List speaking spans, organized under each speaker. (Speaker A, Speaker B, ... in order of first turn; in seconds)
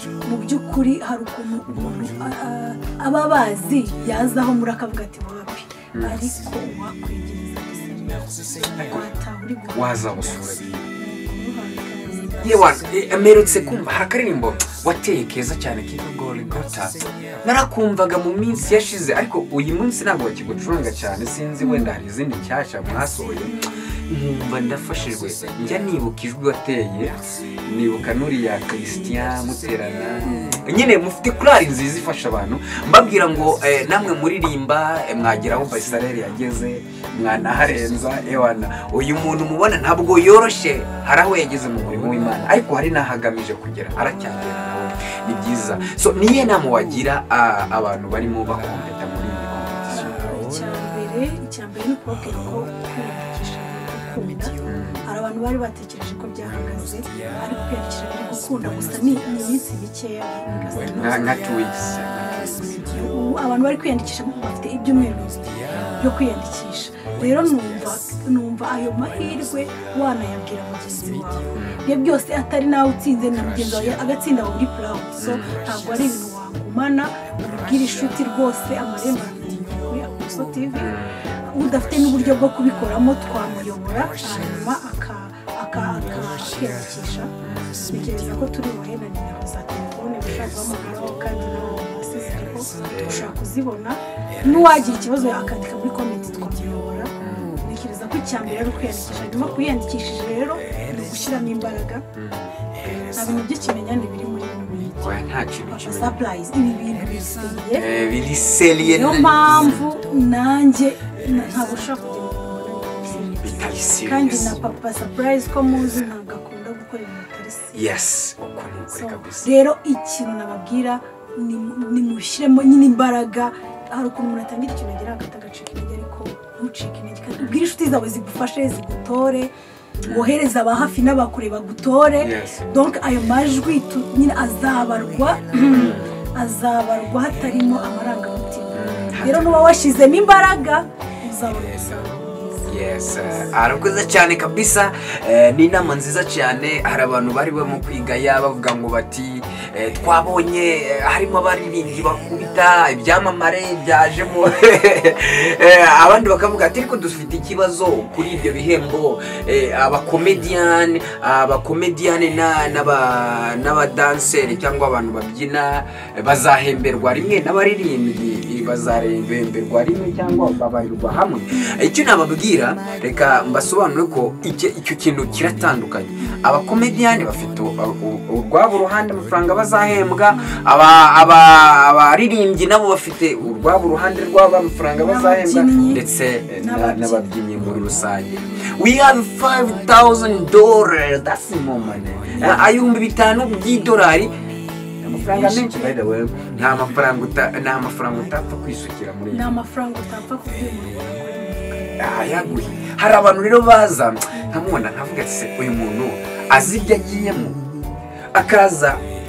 Speaker A: 0.2-10.0, 11.0-12.6, 21.6-21.9, 23.4-23.9, 30.2-30.6, 49.9-61.6, 62.6-80.9, 81.5-87.3, 87.8-102.0, 103.1-105.0, 105.7-107.8, 108.8-118.0, 118.9-129.5, 130.0-143.5, 171.5-171.8, 180.3-180.6, 184.9-186.0, 186.6-187.3, 192.3-192.7, 195.1-196.0, 199.3-202.9
Speaker B: 5.9-6.2, 9.7-10.8, 12.4-23.6, 24.1-50.2, 54.6-55.0, 60.5-62.8, 65.7-66.1, 71.5-71.9, 75.2-75.5, 80.7-81.2, 87.4-87.8, 92.9-93.3, 97.2-97.6, 102.1-103.1, 105.0-106.2, 107.7-109.8, 113.4-114.6, 117.7-119.5, 130.0-130.4, 132.2-132.7, 135.7-136.1, 138.7-139.6, 142.6-194.3, 195.0-199.5, 202.0-207.6, 208.3-209.0